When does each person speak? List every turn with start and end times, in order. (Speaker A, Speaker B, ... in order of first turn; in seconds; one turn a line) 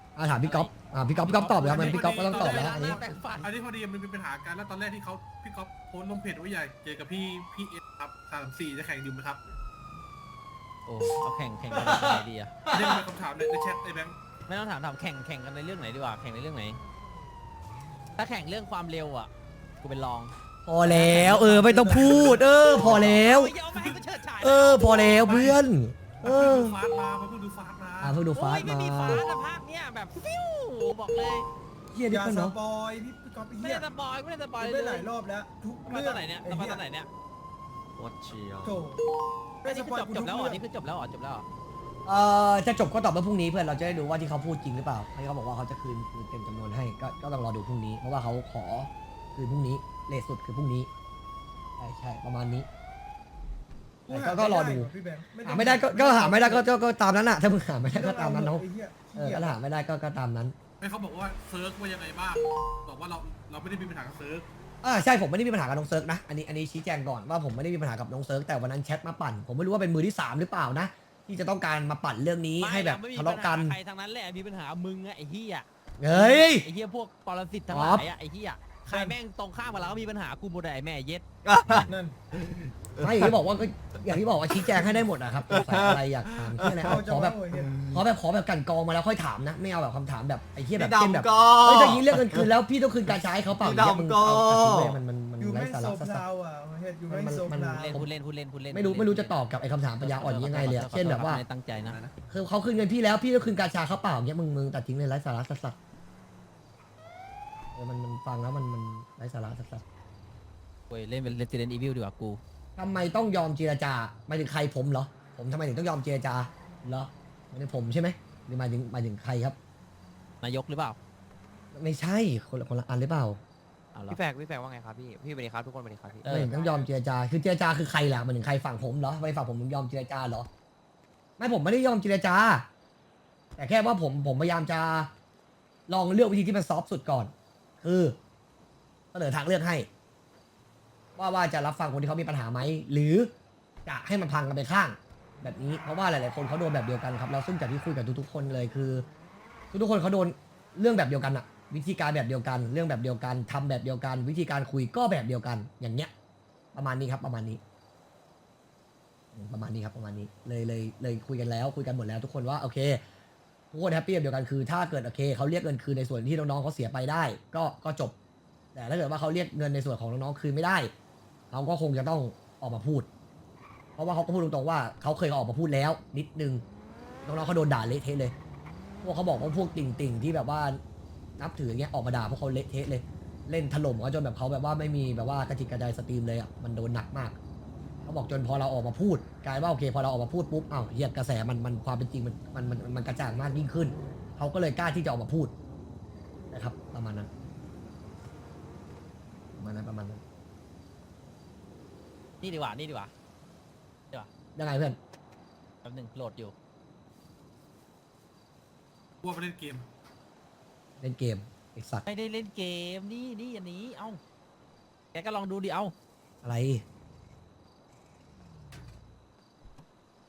Speaker A: 0.1-3.0
Speaker B: 0.3-0.7
Speaker B: 1.3-3.5
Speaker C: 1.3-9.4
Speaker B: 10.8-12.6
Speaker D: 11.7-13.0
Speaker C: 12.7-14.2
Speaker B: 14.5-16.8
Speaker B: 18.2-19.3
Speaker B: 19.8-20.3
Speaker A: 20.6-23.5
Speaker B: 20.9-21.5
Speaker E: 21.4-22.4
Speaker C: 22.0-22.9
Speaker B: 22.8-25.1
Speaker A: 24.4-26.8
Speaker C: 25.0-25.6
Speaker C: 26.2-28.2
Speaker A: 28.0-29.2
Speaker B: 28.3-31.5
Speaker A: 31.9-32.5
Speaker E: 32.1-33.9
Speaker B: 33.6-35.1
Speaker E: 34.6-36.8
Speaker B: 35.8-37.1
Speaker D: 38.0-38.9
Speaker E: 38.6-39.0
Speaker E: 39.6-40.6
Speaker B: 39.6-41.5
Speaker A: 42.0-50.9
Speaker A: 51.8-52.7
Speaker E: 54.1-56.6
Speaker A: 54.1-54.9
Speaker A: 55.4-58.6
Speaker E: 57.9-59.5
Speaker A: 59.1-60.5
Speaker C: 60.8-64.4
Speaker A: 64.8-73.7
Speaker B: 72.6-81.9
Speaker A: 76.0-76.7
Speaker A: 77.7-78.1
Speaker E: 78.9-79.2
Speaker D: 81.4-83.3
Speaker E: 81.9-82.2
Speaker A: 83.0-87.4
Speaker D: 84.1-84.9
Speaker D: 85.5-88.0
Speaker E: 86.8-87.8
Speaker A: 87.9-96.2
Speaker D: 90.8-92.5
Speaker D: 93.1-95.0
Speaker E: 95.4-98.0
Speaker A: 97.1-98.1
Speaker B: 97.8-99.4
Speaker A: 98.7-101.4
Speaker B: 100.0-102.0
Speaker D: 101.8-102.1
Speaker A: 102.3-105.8
Speaker A: 107.7-109.8
Speaker B: 110.9-112.4
Speaker A: 112.8-119.6
Speaker B: 120.4-121.0
Speaker A: 121.7-123.4
Speaker B: 123.9-124.2
Speaker F: 124.1-126.2
Speaker B: 126.2-126.5
Speaker A: 126.2-130.5
Speaker C: 126.5-126.9
Speaker A: 131.4-132.7
Speaker A: 133.6-135.1
Speaker A: 135.9-138.2
Speaker A: 139.1-139.9
Speaker A: 141.2-143.3
Speaker A: 143.8-149.1
Speaker A: 149.7-156.1
Speaker A: 156.7-157.6
Speaker A: 159.3-163.0
Speaker A: 163.7-168.1
Speaker A: 168.7-170.9
Speaker A: 171.5-173.1
Speaker A: 173.9-176.6
Speaker A: 177.2-178.3
Speaker A: 179.0-180.8
Speaker A: 181.4-187.4
Speaker A: 188.0-195.5
Speaker A: 196.5-197.3
Speaker A: 199.6-200.2
Speaker B: 202.4-203.1
Speaker A: 204.5-205.0
Speaker B: 205.8-206.5
Speaker C: 209.2-209.9
Speaker A: 211.0-212.1
Speaker B: 212.1-214.2
Speaker B: 215.1-215.9
Speaker A: 216.4-216.8